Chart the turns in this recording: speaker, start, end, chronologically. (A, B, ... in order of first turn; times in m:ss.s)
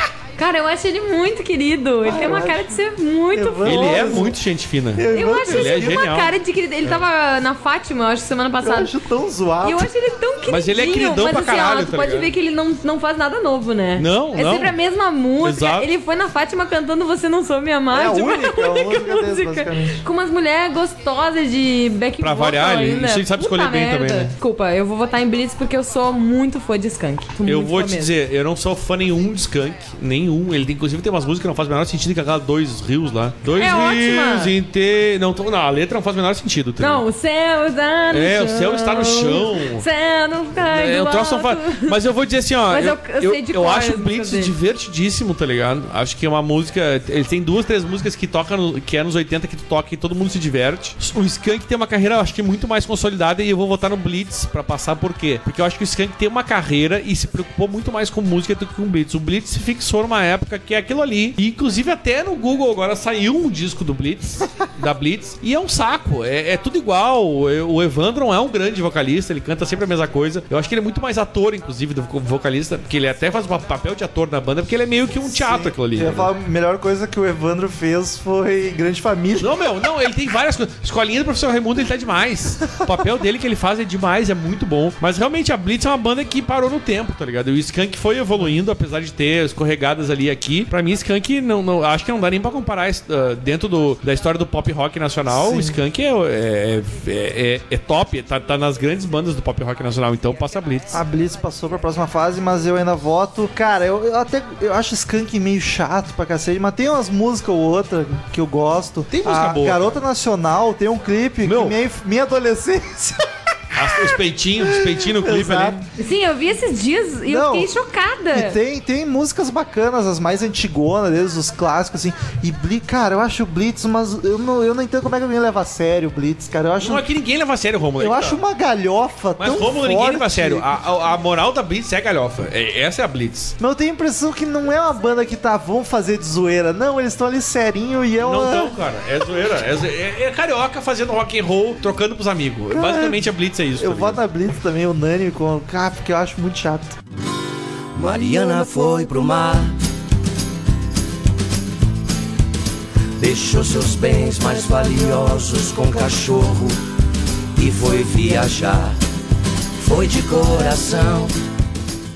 0:00.4-0:04.3 A
0:02.0-0:02.7 B
0:03.3-0:04.4 B
0:03.6-0:06.3 C
0:04.9-0:06.0 B
0:05.1-0:08.9 A
0:08.6-0:09.9 B
0:09.6-0:28.1 A
0:10.5-0:12.3 C
0:14.0-0:14.7 C
0:15.4-0:15.9 C
0:17.9-0:20.0 B
0:22.2-0:24.3 C
0:27.4-0:37.0 C
0:33.5-0:34.5 A
0:36.8-0:41.9 A
0:38.1-0:39.9 C
0:40.6-1:16.3 C
0:42.7-0:44.5 A
1:15.2-1:19.5 B
1:19.4-1:41.0 C
1:35.3-1:35.8 B
1:40.9-1:54.0 B
1:49.1-1:50.0 C
1:51.4-1:51.8 C
1:53.7-1:55.8 C
1:54.6-1:55.8 B
1:56.0-1:58.6 A
1:57.3-1:57.7 B
1:58.3-2:07.0 B
2:06.8-2:08.4 C
2:08.0-2:10.7 B
2:09.4-2:13.5 C
2:13.6-2:18.7 B
2:18.2-2:24.2 C
2:22.7-2:27.0 B
2:28.0-2:29.8 D
2:33.2-2:36.8 D
2:37.6-2:39.0 D
2:39.8-2:41.3 D